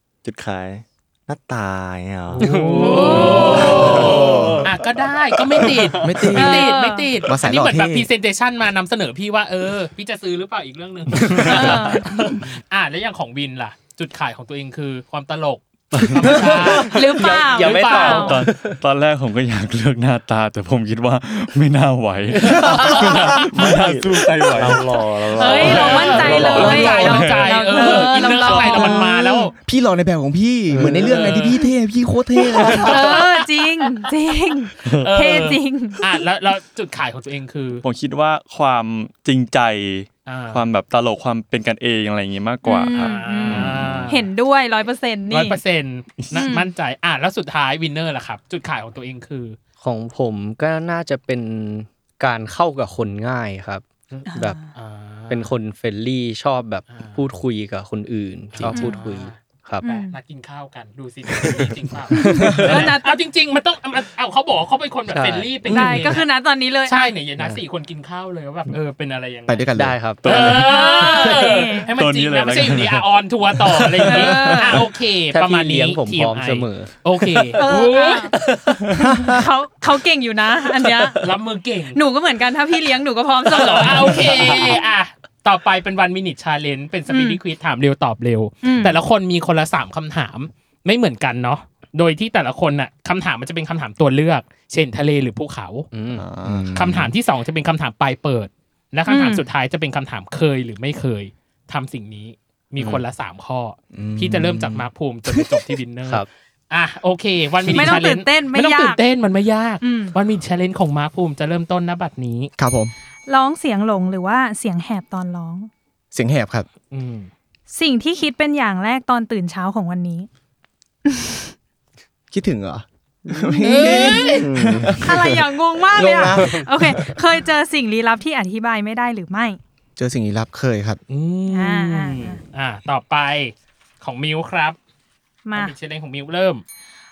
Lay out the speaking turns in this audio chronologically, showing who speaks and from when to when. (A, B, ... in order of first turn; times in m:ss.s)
0:00.2-0:02.6 A
0:02.3-0:18.4 B
0:02.4-0:04.6 C
0:02.8-0:03.7 D
0:03.4-0:04.2 A
0:03.8-0:04.7 E
0:06.0-0:08.1 E
0:06.3-0:07.2 D
0:11.2-0:11.6 C
0:11.2-0:11.9 F
0:11.5-0:12.2 D
0:16.0-0:16.5 F
0:16.0-0:18.8 C
0:16.8-0:18.4 D
0:18.1-0:28.6 F
0:22.3-0:23.1 C
0:22.8-0:26.4 A
0:24.6-0:27.0 C
0:25.4-0:29.5 D
0:25.4-0:29.5 B
0:29.6-0:33.0 E
0:30.8-0:31.1 C
0:30.9-0:31.6 B
0:32.6-0:34.1 B
0:32.7-0:36.2 D
0:35.0-0:37.8 B
0:37.8-0:44.2 F
0:40.3-0:40.6 B
0:42.6-0:45.6 D
0:42.9-0:44.3 B
0:45.3-0:49.6 B
0:46.2-0:46.6 F
0:46.3-0:46.7 D
0:49.8-0:54.6 C
0:54.1-0:55.5 B
0:54.3-0:54.7 D
0:55.3-0:59.9 C
0:56.9-0:57.2 B
0:58.5-1:06.3 B
0:58.7-0:59.0 D
0:59.8-1:00.2 D
1:02.1-1:03.2 D
1:02.2-1:02.8 C
1:05.1-1:05.5 C
1:05.7-1:06.1 E
1:05.7-1:07.2 D
1:06.9-1:09.7 B
1:09.5-1:10.2 E
1:09.8-1:10.7 C
1:10.2-1:18.4 B
1:10.2-1:10.6 F
1:10.6-1:12.0 D
1:12.0-1:14.2 F
1:14.1-1:14.9 D
1:15.3-1:17.6 C
1:17.6-1:18.4 D
1:18.3-1:18.9 C
1:19.0-1:19.4 E
1:19.1-1:21.3 D
1:21.2-1:22.0 B
1:21.9-1:24.8 D
1:23.5-1:35.9 B
1:27.1-1:27.4 D
1:28.6-1:29.0 D
1:35.9-1:36.7 C
1:36.2-1:37.1 E
1:36.7-1:52.5 B
1:39.1-1:39.4 D
1:42.8-1:43.0 C
1:43.9-1:45.8 E
1:47.7-1:49.0 D
1:49.8-1:50.2 D
1:52.6-1:52.9 E
1:53.3-1:55.7 D
1:56.1-1:56.7 E
1:56.9-1:57.3 B
1:57.7-2:00.3 D
2:01.1-2:01.5 D
2:02.3-2:07.2 E
2:03.3-2:05.1 A
2:03.6-2:04.5 B
2:03.8-2:04.4 D
2:05.0-2:09.6 D
2:10.0-2:11.0 E
2:11.1-2:14.8 B
2:11.5-2:12.4 D
2:15.5-2:15.8 D
2:15.5-2:16.6 B